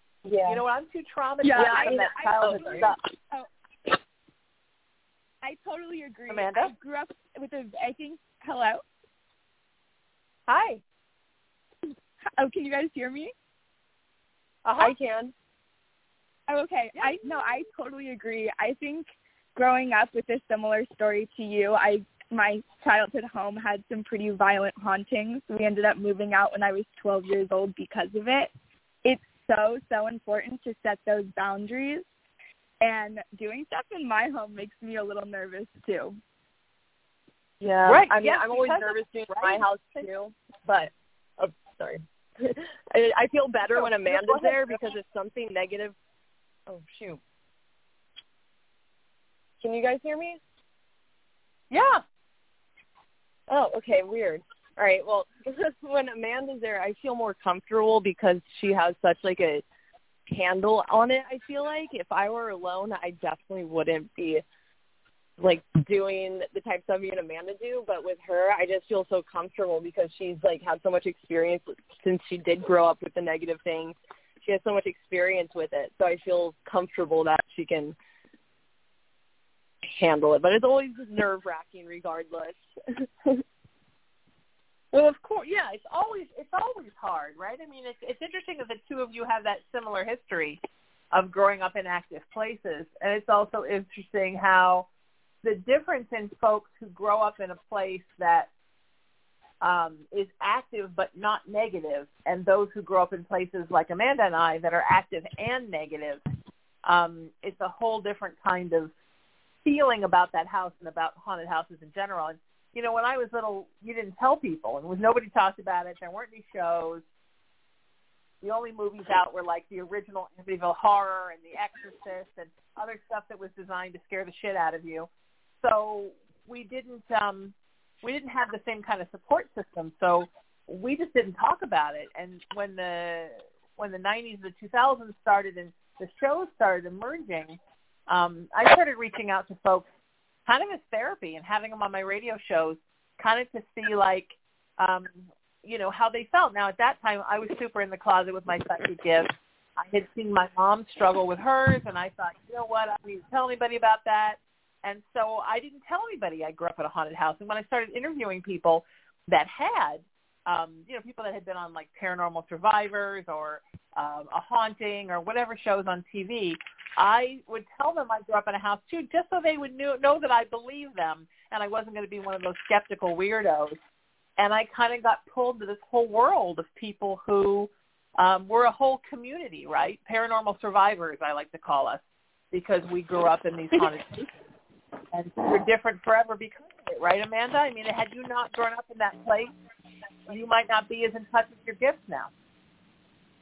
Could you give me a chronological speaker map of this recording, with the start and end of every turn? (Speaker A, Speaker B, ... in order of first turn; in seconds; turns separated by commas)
Speaker A: 0.2-0.6, Speaker B: 0.5-3.0, Speaker C: 1.4-3.5, Speaker A: 1.5-2.9, Speaker C: 5.4-8.8, Speaker B: 6.3-6.7, Speaker B: 10.5-10.8, Speaker C: 12.4-13.3, Speaker B: 14.6-14.9, Speaker A: 14.8-15.3, Speaker C: 16.5-28.5, Speaker C: 29.0-32.0, Speaker C: 32.8-36.2, Speaker A: 37.6-46.0, Speaker B: 37.9-40.0, Speaker B: 43.7-44.7, Speaker A: 46.7-47.2, Speaker A: 49.6-50.4, Speaker B: 51.7-52.0, Speaker A: 53.5-59.6, Speaker A: 60.3-64.4, Speaker A: 65.4-78.0, Speaker A: 79.8-83.4, Speaker B: 84.9-90.6, Speaker B: 91.1-94.8, Speaker B: 95.4-98.5, Speaker B: 99.6-106.2, Speaker B: 106.8-108.9, Speaker B: 109.6-117.0, Speaker B: 118.4-125.1, Speaker B: 125.6-137.6, Speaker B: 138.1-139.8, Speaker B: 140.4-173.8, Speaker B: 174.4-182.0, Speaker B: 182.5-184.3, Speaker B: 185.1-189.5, Speaker B: 190.3-192.3